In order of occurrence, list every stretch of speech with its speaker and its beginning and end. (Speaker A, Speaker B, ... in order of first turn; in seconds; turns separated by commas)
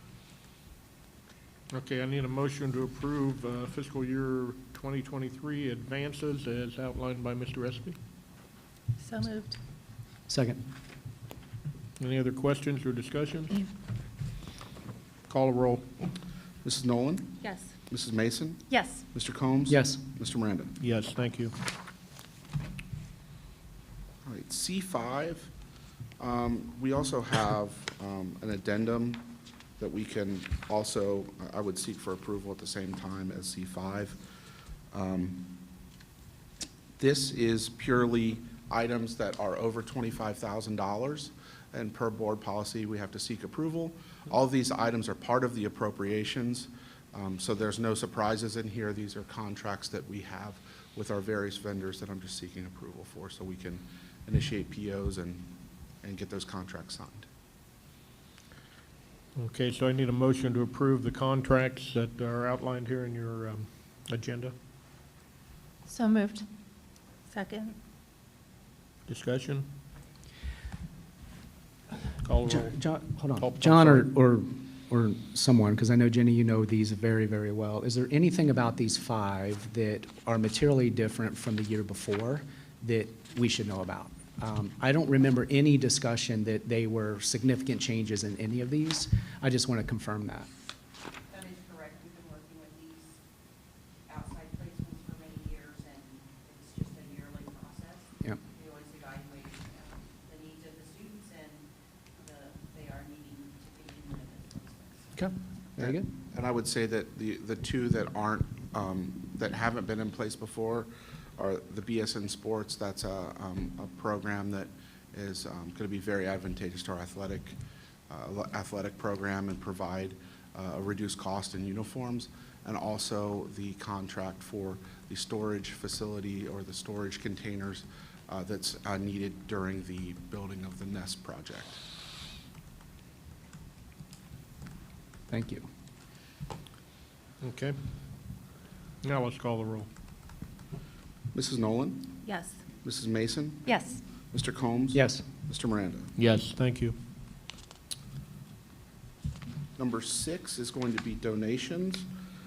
Speaker A: 1.7-8.0, Speaker B: 9.0-9.6, Speaker C: 10.3-10.6, Speaker A: 12.0-13.7, Speaker A: 15.3-15.9, Speaker D: 16.6-20.8, Speaker B: 17.4-17.7, Speaker B: 18.7-19.0, Speaker C: 19.7-20.0, Speaker A: 20.8-21.5, Speaker D: 24.2-25.5, Speaker D: 26.2-34.2, Speaker D: 34.9-35.6, Speaker D: 37.0-57.3, Speaker A: 59.4-64.5, Speaker B: 65.9-66.4, Speaker B: 67.3-67.8, Speaker A: 69.1-69.7, Speaker A: 72.2-72.8, Speaker C: 72.5-90.5, Speaker A: 73.4-74.1, Speaker E: 91.5-93.0, Speaker E: 94.1-98.0, Speaker E: 98.6-99.5, Speaker E: 100.3-101.6, Speaker E: 102.3-104.8, Speaker C: 105.2-106.1, Speaker D: 105.8-117.6, Speaker D: 118.1-131.8, Speaker C: 135.3-135.7, Speaker A: 137.4-137.8, Speaker A: 139.0-139.9, Speaker D: 141.3-142.2, Speaker B: 142.2-142.6, Speaker D: 142.8-143.7, Speaker B: 143.7-144.0, Speaker D: 144.3-146.1, Speaker C: 144.9-145.2, Speaker A: 146.2-147.0, Speaker D: 149.8-152.1